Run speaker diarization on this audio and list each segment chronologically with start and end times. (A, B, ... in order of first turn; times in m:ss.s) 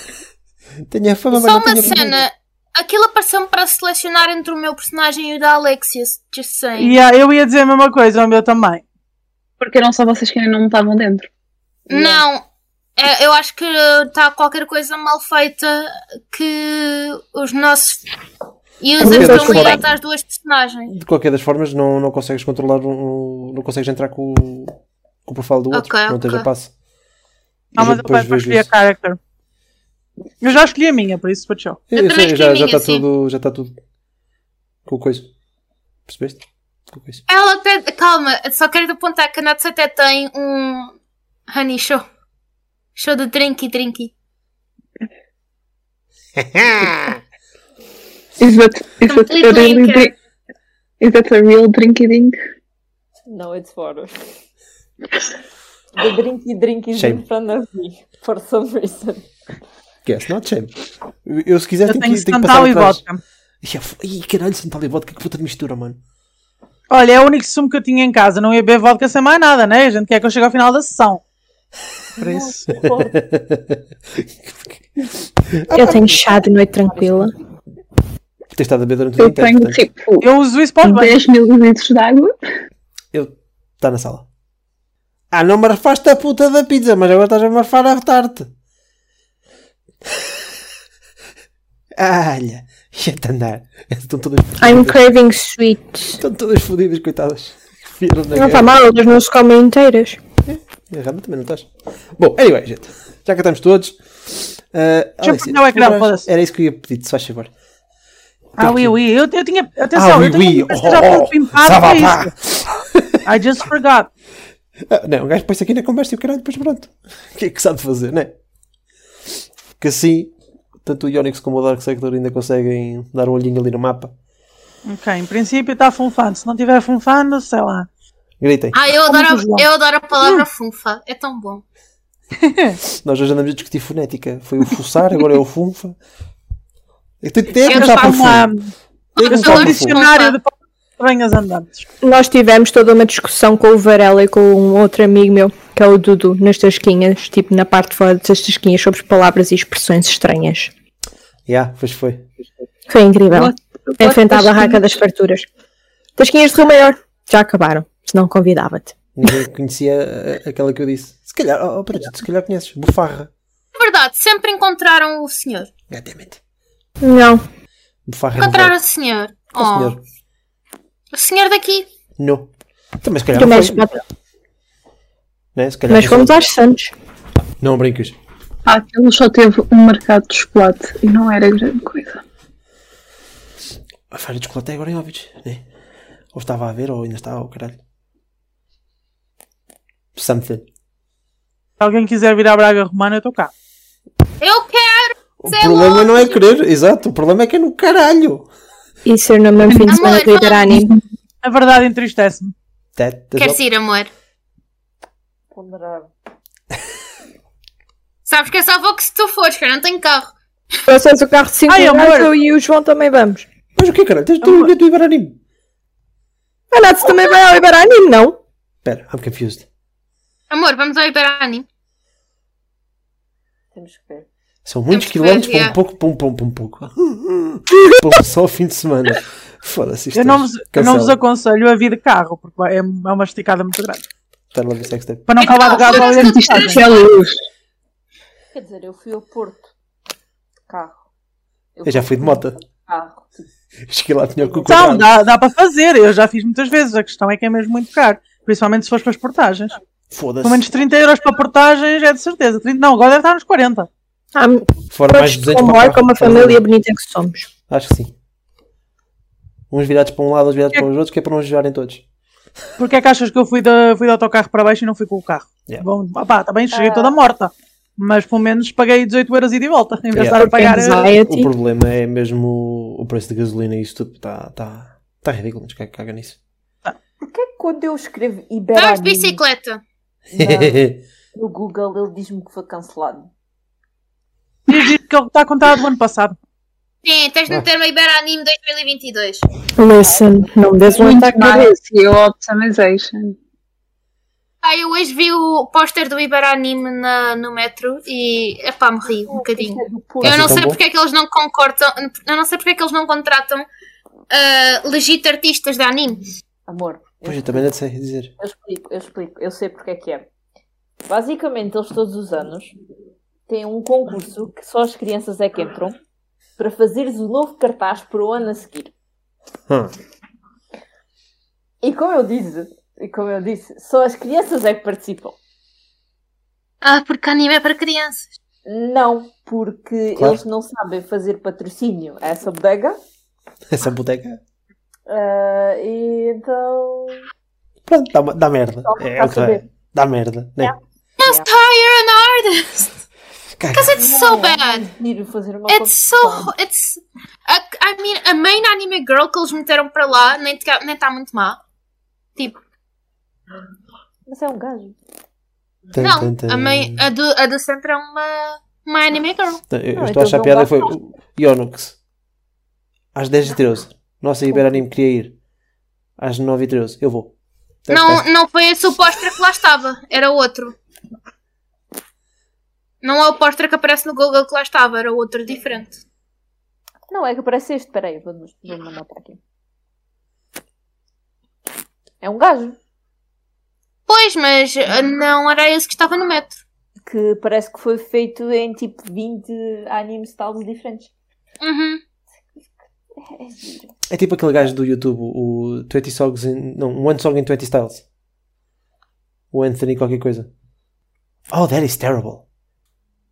0:00.9-0:02.2 A
0:01.3-0:07.0 B
0:06.8-0:08.8 C
0:09.6-0:11.3 D
0:11.9-0:12.4 B
0:11.9-0:12.2 E
0:13.0-0:18.0 B
0:18.8-0:20.9 B
0:19.0-0:19.8 F
0:19.0-0:19.8 A
0:20.9-0:26.7 A
0:25.7-0:26.5 B
0:27.7-0:29.2 C
0:27.8-0:28.7 A
0:30.4-0:31.8 C
0:31.9-0:33.7 A
0:31.9-0:33.0 B
0:34.8-0:35.3 A
0:36.1-0:37.2 A
0:37.3-0:40.9 B
0:41.5-0:42.0 B
0:43.0-0:44.1 B
0:46.4-0:47.2 A
0:48.4-0:50.1 D
0:49.0-0:50.1 B
0:51.0-0:52.3 D
0:53.2-0:54.2 E
0:55.9-0:59.3 E
0:57.0-0:57.2 A
1:00.0-1:03.0 A
1:01.9-1:03.2 C
1:03.6-1:06.0 A
1:06.9-1:11.2 C
1:12.2-1:13.2 E
1:12.2-1:12.6 C
1:12.8-1:16.2 A
1:15.7-1:17.3 F
1:16.9-1:17.3 E
1:18.5-1:19.8 A
1:19.2-1:20.3 D
1:20.2-1:21.2 C
1:20.8-1:22.3 D
1:23.1-1:24.2 A
1:25.3-1:28.5 A
1:31.9-1:35.0 A
1:34.6-1:36.2 F
1:36.2-1:38.7 A
1:38.3-1:40.2 F
1:40.4-1:47.5 A
1:45.2-1:46.3 C
1:48.6-1:52.3 C
1:48.6-1:49.0 A
1:49.9-1:53.2 A
1:53.2-1:54.1 C
1:54.9-1:58.3 A
1:59.8-2:00.3 A
2:00.8-2:04.1 A
2:04.8-2:07.9 C
2:08.4-2:08.8 A
2:08.7-2:11.6 B
2:09.1-2:09.7 C
2:10.2-2:10.4 C
2:12.4-2:12.8 C
2:12.9-2:16.0 A
2:17.2-2:18.5 A
2:17.6-2:21.8 C
2:17.7-2:18.3 B
2:19.2-2:20.4 B
2:19.2-2:20.0 A
2:22.0-2:30.7 F
2:31.5-2:32.2 A
2:32.9-2:35.4 F
2:33.3-2:35.0 D
2:36.2-2:39.0 F
2:39.1-2:43.3 A
2:43.8-2:45.7 B
2:45.9-2:46.4 A
2:47.0-2:47.4 F
2:48.0-2:48.7 A
2:48.4-2:50.0 B
2:49.5-2:50.0 A
2:51.1-2:51.9 B
2:52.2-2:52.5 A
2:53.0-2:53.8 A
2:53.3-2:54.0 F
2:55.5-2:56.5 A
2:55.9-2:56.9 F
2:57.6-2:58.2 A
2:58.6-3:02.2 D
3:04.1-3:05.6 A
3:06.3-3:07.8 A
3:10.1-3:10.6 A
3:11.8-3:13.5 C
3:14.4-3:16.4 B
3:15.4-3:18.5 A
3:19.0-3:21.0 F
3:19.9-3:20.7 B
3:21.4-3:22.5 C
3:23.0-3:23.6 A
3:23.4-3:24.1 B
3:25.5-3:26.1 E
3:28.2-3:30.3 B
3:30.9-3:33.4 F
3:31.7-3:32.3 C
3:33.8-3:35.4 A
3:34.4-3:34.7 C
3:36.7-3:38.4 F
3:38.8-3:39.6 A
3:40.5-3:41.6 B
3:43.7-3:44.3 E
3:44.6-3:51.2 A
3:44.9-3:45.8 B
3:50.1-3:54.0 C
3:54.5-3:55.3 A
3:55.3-3:56.8 C
3:55.4-3:57.1 B
3:55.9-3:57.4 D
3:58.5-3:59.7 E
4:00.7-4:01.1 E
4:01.7-4:03.4 E
4:01.8-4:02.6 A
4:03.9-4:05.1 A
4:04.4-4:04.6 E
4:04.6-4:09.7 C
4:10.1-4:10.6 A
4:10.4-4:13.9 C
4:14.3-4:17.5 F
4:14.9-4:16.6 A
4:17.7-4:18.1 A
4:19.7-4:22.0 A
4:22.8-4:31.1 C
4:26.7-4:27.2 E
4:30.1-4:36.4 A
4:30.3-4:31.5 F
4:37.2-4:39.4 E
4:38.7-4:39.8 B
4:40.3-4:43.3 E
4:40.4-4:41.0 A
4:44.7-4:46.4 C
4:47.0-4:49.5 B
4:49.8-4:51.8 F
4:50.9-4:53.4 D
4:54.6-5:03.7 B
4:59.2-5:00.7 E
5:00.2-5:00.8 A
5:04.3-5:06.2 B
5:06.7-5:07.7 E
5:07.2-5:08.3 A
5:08.4-5:10.3 E
5:11.0-5:12.8 E
5:13.5-5:15.9 E
5:16.6-5:18.9 E
5:21.8-5:25.4 E
5:26.8-5:28.3 B
5:28.6-5:33.0 E
5:30.2-5:30.4 A
5:33.7-5:34.4 A
5:35.1-5:37.2 E
5:37.8-5:40.7 A
5:38.8-5:39.6 E
5:41.2-5:42.9 B
5:41.2-5:41.5 E
5:43.6-5:44.0 A
5:43.7-5:44.8 B
5:43.9-5:46.5 E
5:45.7-5:51.6 B
5:54.3-5:55.0 E
5:55.9-5:57.0 A
5:56.0-5:59.6 B
5:59.7-6:02.0 A
6:00.0-6:00.9 E
6:03.1-6:05.3 A
6:04.5-6:04.8 E
6:06.2-6:07.3 A
6:07.8-6:08.2 A
6:07.9-6:10.7 B
6:13.0-6:16.0 B
6:17.1-6:19.4 E
6:22.2-6:22.8 E
6:24.1-6:26.6 B
6:27.0-6:31.1 E
6:31.6-6:32.0 B
6:32.5-6:33.9 E
6:34.1-6:38.0 A
6:39.5-6:40.5 A
6:41.5-6:42.4 A